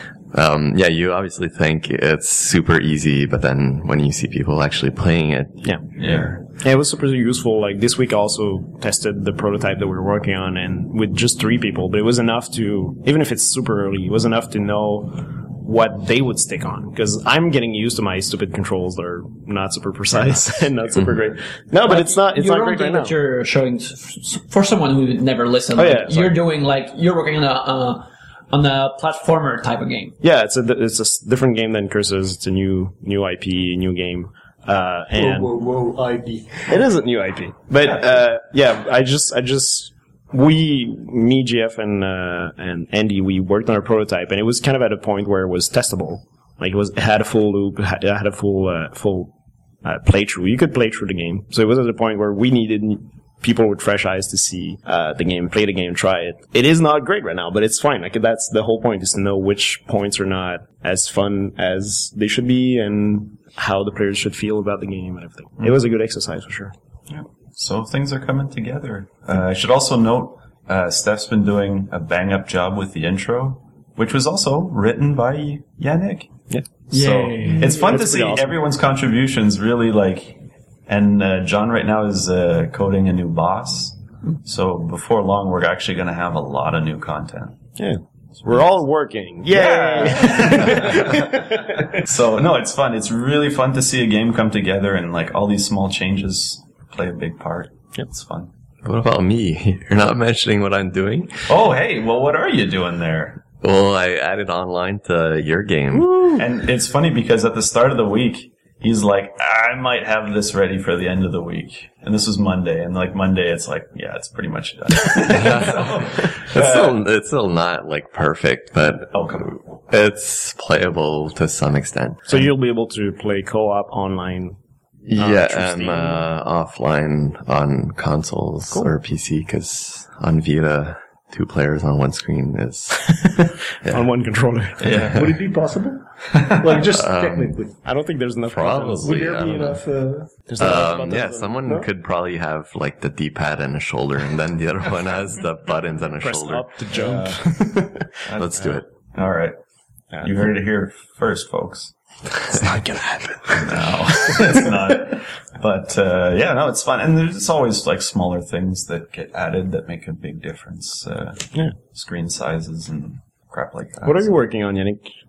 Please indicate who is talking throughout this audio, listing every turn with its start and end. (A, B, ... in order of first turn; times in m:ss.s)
0:00.3-0:06.3 A
0:05.6-0:05.9 B
0:06.0-0:06.4 C
0:06.5-0:23.1 B
0:21.8-0:30.2 D
0:25.7-0:26.4 B
0:30.2-0:35.5 B
0:35.1-0:36.8 E
0:36.7-0:49.3 B
0:49.8-1:06.7 B
1:07.1-1:27.6 C
1:16.9-1:17.7 D
1:17.4-1:18.5 B
1:27.8-1:32.0 B
1:29.5-1:38.5 C
1:38.8-1:41.4 A
1:41.5-1:43.5 C
1:43.6-1:46.2 A
1:45.9-1:46.4 B
1:46.4-1:57.0 C
1:55.4-1:55.8 A
1:56.4-2:02.4 A
1:59.1-1:59.6 C
2:02.3-2:04.6 B
2:05.0-2:13.2 A
2:05.1-2:06.3 B
2:12.9-2:15.2 B
2:14.8-2:15.4 C
2:15.1-2:17.7 E
2:16.3-2:16.9 C
2:16.8-2:17.6 A
2:17.7-2:19.4 B
2:18.5-2:19.8 A
2:18.6-2:20.5 E
2:20.5-2:21.6 B
2:20.6-2:26.7 A
2:26.2-2:28.8 B
2:26.9-2:27.4 C
2:28.3-2:29.6 C
2:28.4-2:28.8 A
2:30.1-2:30.4 B
2:30.2-2:32.0 C
2:32.4-2:34.7 B
2:33.5-2:44.3 C
2:44.0-2:45.1 B